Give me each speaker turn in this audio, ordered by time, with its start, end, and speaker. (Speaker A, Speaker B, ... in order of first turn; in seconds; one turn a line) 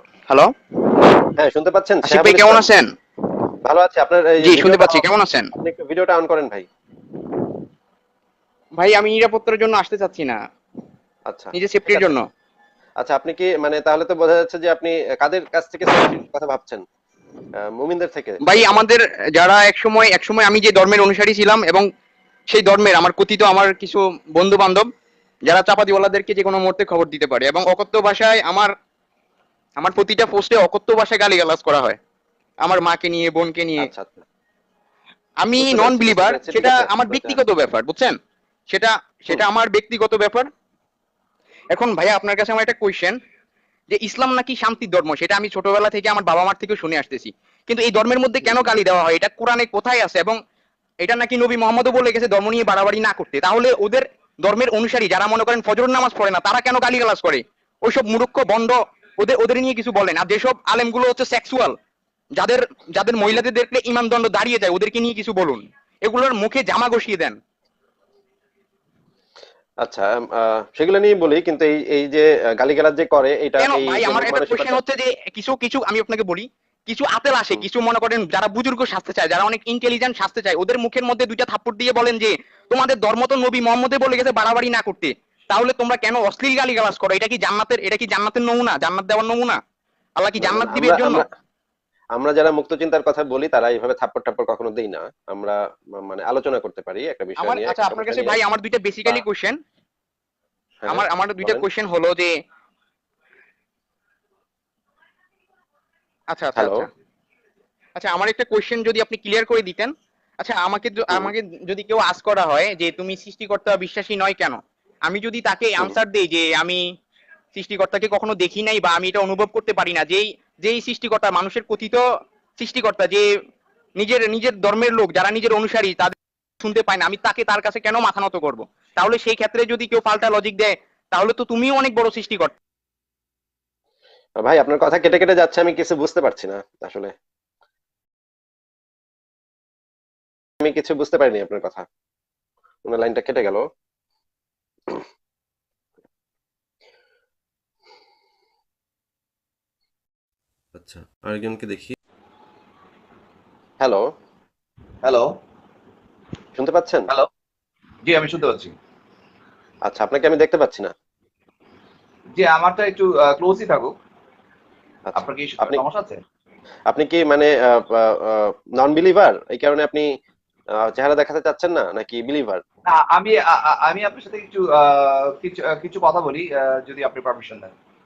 Speaker A: 1.4-2.6
Speaker B: 2.1-2.9
Speaker A: 3.6-6.7
Speaker B: 4.4-5.5
Speaker B: 8.8-10.4
Speaker A: 11.3-12.2
Speaker B: 11.5-12.3
Speaker A: 13.0-16.8
Speaker A: 17.6-18.8
Speaker B: 18.4-21.9
Speaker B: 22.5-24.9
Speaker B: 25.5-28.7
Speaker B: 29.8-32.0
Speaker B: 32.6-33.9
Speaker A: 33.8-34.3
Speaker B: 35.4-38.2
Speaker A: 35.6-37.4
Speaker B: 38.7-40.5
Speaker B: 41.7-43.1
Speaker B: 43.9-50.4
Speaker A: 48.4-48.7
Speaker B: 51.0-61.7
Speaker B: 62.4-67.4
Speaker A: 69.8-74.8
Speaker B: 73.6-89.6
Speaker B: 90.2-91.2
Speaker A: 90.4-91.3
Speaker A: 92.2-98.4
Speaker B: 97.4-99.6
Speaker A: 100.8-101.7
Speaker B: 100.9-102.3
Speaker B: 106.3-106.9
Speaker A: 106.6-106.9
Speaker B: 108.0-116.8
Speaker B: 117.5-122.0
Speaker B: 122.6-123.3
Speaker B: 124.0-132.5
Speaker A: 134.4-137.1
Speaker A: 140.6-141.8
Speaker A: 142.8-143.6
Speaker A: 150.8-151.9
Speaker C: 155.0-155.3
Speaker A: 156.6-157.1
Speaker C: 158.1-158.7
Speaker A: 159.8-160.9
Speaker C: 162.3-163.9
Speaker A: 165.1-165.8
Speaker C: 165.2-166.2
Speaker A: 166.9-170.1
Speaker A: 170.8-172.6
Speaker C: 172.8-177.7